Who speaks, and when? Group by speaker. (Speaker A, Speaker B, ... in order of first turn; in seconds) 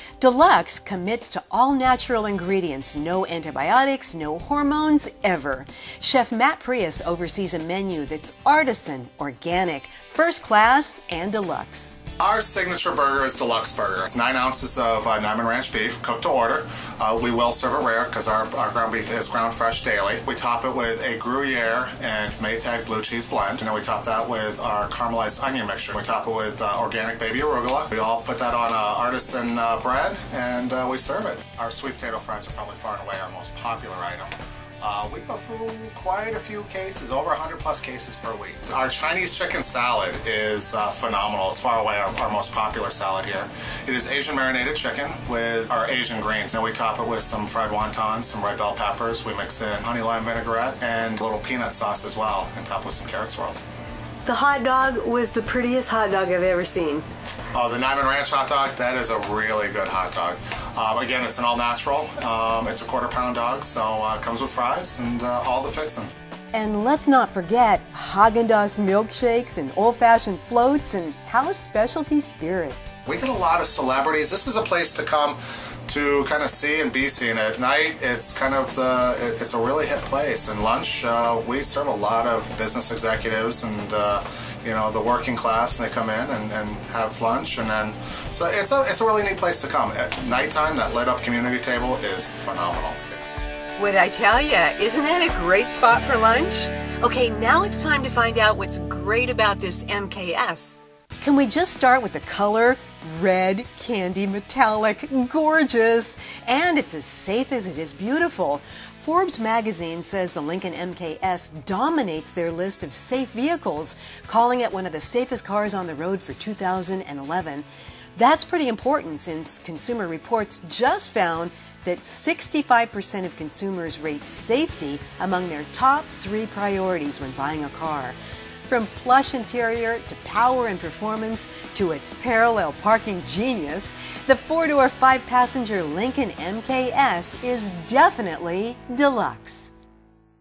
Speaker A: 0.2-12.0, 54.2-57.0, 66.5-73.0, 93.8-139.7
Speaker B: 12.2-53.6, 57.5-66.1, 73.0-93.2